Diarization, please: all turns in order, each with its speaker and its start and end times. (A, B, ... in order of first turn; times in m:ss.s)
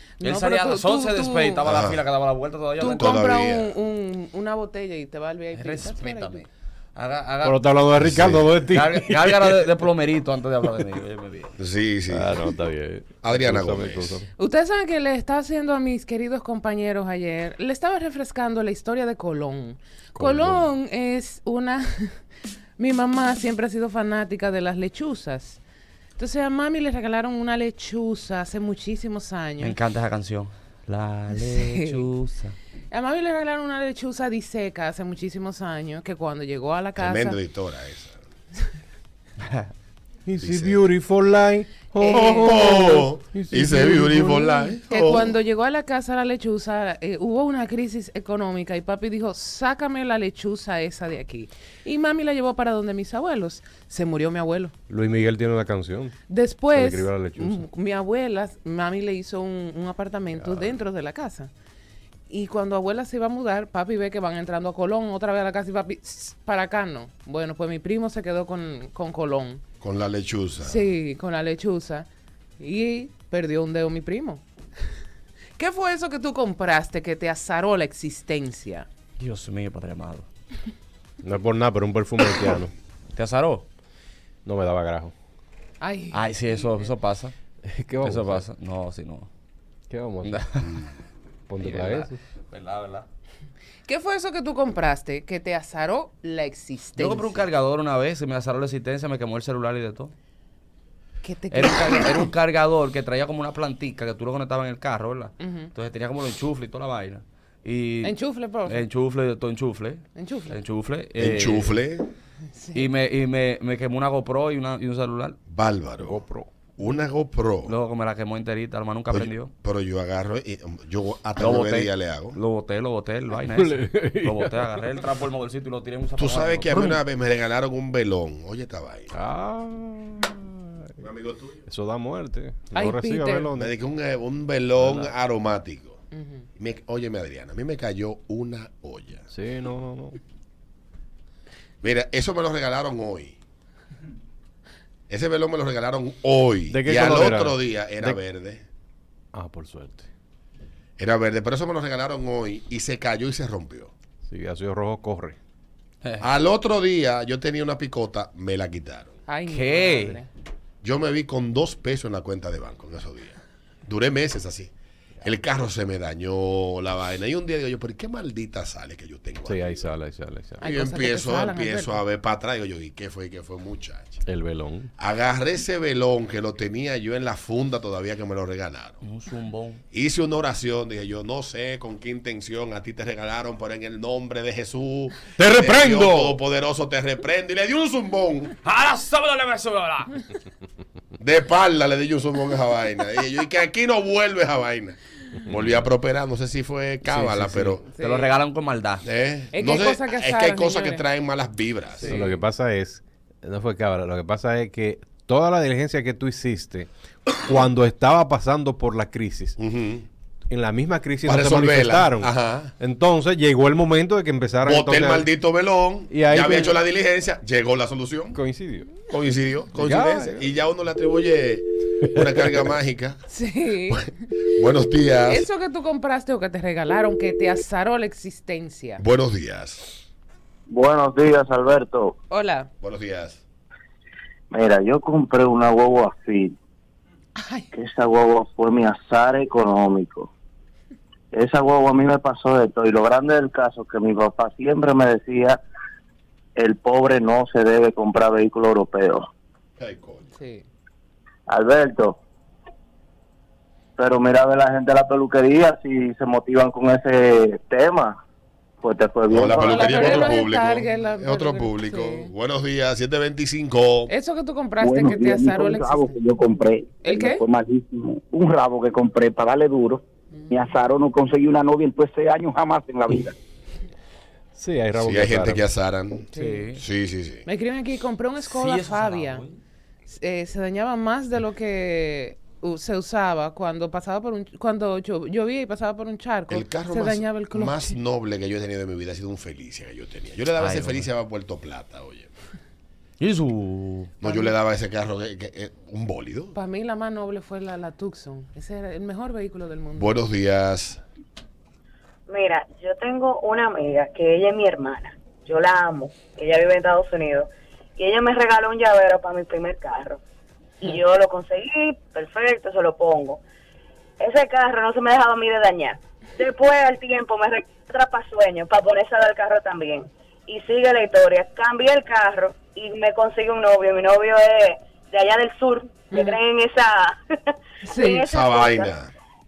0:00.2-0:01.6 A
0:00.2-0:03.2 B
0:01.6-0:02.0 C
0:02.8-0:06.4 A
0:03.0-0:03.7 C
0:05.5-0:06.4 B
0:07.0-0:07.7 B
0:07.4-0:09.7 D
0:08.0-0:08.5 C
0:08.7-0:11.5 B
0:11.6-0:12.4 C
0:12.1-0:14.3 D
0:13.2-0:14.2 C
0:14.4-0:22.2 A
0:20.1-0:20.7 D
0:22.8-0:25.6 A
0:26.2-0:29.8 A
0:29.6-0:32.6 B
0:31.3-0:32.0 A
0:32.9-0:37.4 A
0:37.0-0:38.2 C
0:40.2-0:44.7 D
0:40.4-0:40.8 C
0:42.0-0:43.0 A
0:42.1-0:45.4 C
0:44.9-0:54.7 A
0:54.9-0:56.2 D
0:56.3-1:01.5 A
0:56.7-0:57.6 D
1:00.3-1:00.8 D
1:02.3-1:09.6 A
1:09.8-1:10.8 C
1:10.6-1:12.1 A
1:12.6-1:14.4 A
1:15.6-1:18.9 A
1:19.2-1:20.3 B
1:21.2-1:22.7 D
1:23.1-1:23.6 B
1:24.4-1:25.1 D
1:25.8-1:26.8 A
1:26.1-1:27.3 B
1:27.6-1:28.4 D
1:28.0-1:29.3 B
1:29.9-1:30.4 D
1:30.2-1:30.7 B
1:31.5-1:32.2 D
1:31.6-1:33.0 B
1:33.9-1:37.5 A
1:37.0-1:40.1 B
1:41.2-1:42.2 A
1:41.5-1:51.8 B
1:45.4-1:45.7 A
1:48.0-1:48.8 A
1:50.2-1:50.6 A
1:51.2-1:52.1 C
1:52.5-1:52.9 A
1:52.7-1:55.4 B
1:55.5-1:56.2 C
1:56.0-1:56.5 D
1:56.8-1:57.7 C
1:57.7-1:59.5 B
1:59.1-2:02.4 C
2:01.4-2:07.0 B
2:03.3-2:04.8 D
2:06.2-2:09.1 C
2:09.1-2:11.0 D
2:11.0-2:11.6 C
2:11.6-2:13.7 D
2:12.7-2:13.5 A
2:13.6-2:16.0 C
2:14.8-2:15.1 D
2:16.1-2:16.4 A
2:16.6-2:19.2 C
2:19.3-2:20.2 D
2:21.8-2:23.4 C
2:25.1-2:28.6 C
2:26.7-2:28.2 D
2:29.3-2:30.1 D
2:31.0-2:33.9 C
2:34.2-2:35.4 D
2:36.2-2:39.1 C
2:39.3-2:40.3 A
2:39.5-2:40.2 B
2:40.8-2:44.7 C
2:45.2-2:49.6 C
2:49.4-2:50.6 D
2:50.6-2:52.0 A
2:50.6-2:54.2 C
2:54.2-2:54.9 D
2:55.0-2:59.0 C
2:59.0-2:59.8 B
2:59.9-3:08.5 C
3:05.4-3:06.4 D
3:08.6-3:10.1 B
3:11.2-3:15.0 C
3:15.5-3:15.8 D
3:15.5-3:17.8 C
3:17.0-3:19.0 B
3:17.9-3:18.3 A
3:19.0-3:22.1 C
3:19.5-3:21.0 A
3:22.0-3:26.9 D
3:27.4-3:29.6 D
3:29.6-3:30.0 C
3:30.5-3:35.3 D
3:31.2-3:32.7 C
3:34.6-3:38.4 C
3:36.1-3:36.8 D
3:38.3-3:38.9 D
3:39.1-3:43.2 C
3:39.7-3:40.4 D
3:43.3-3:44.1 A
3:43.9-3:45.5 C
3:45.2-3:49.0 A
3:49.0-3:50.0 C
3:50.7-3:52.2 E
3:52.3-3:52.7 A
3:52.8-3:53.4 C
3:54.5-3:56.5 E
3:57.4-3:57.7 A
3:57.7-4:00.3 E
4:01.3-4:05.6 E
4:06.6-4:09.3 E
4:09.8-4:10.2 C
4:10.3-4:10.6 A
4:11.5-4:12.2 E
4:14.0-4:18.2 E
4:18.8-4:20.1 E
4:19.3-4:24.1 C
4:19.6-4:22.3 A
4:24.1-4:26.2 A
4:24.8-4:33.3 F
4:27.0-4:27.4 A
4:34.5-4:35.6 D
4:35.0-4:37.4 C
4:36.3-4:36.7 A
4:36.3-4:36.8 B
4:37.4-4:39.4 A
4:38.4-4:39.6 B
4:40.1-4:47.9 A
4:46.5-4:52.3 C
4:50.6-4:51.0 B
4:53.2-4:54.2 B
4:54.2-4:56.5 C
4:54.2-4:54.5 A
4:56.5-5:00.1 A
4:59.9-5:01.0 C
5:02.3-5:10.2 G
5:10.8-5:13.4 G
5:14.2-5:27.2 G
5:26.1-5:26.4 A
5:27.8-5:28.2 A
5:28.0-5:28.9 G
5:28.3-5:29.1 C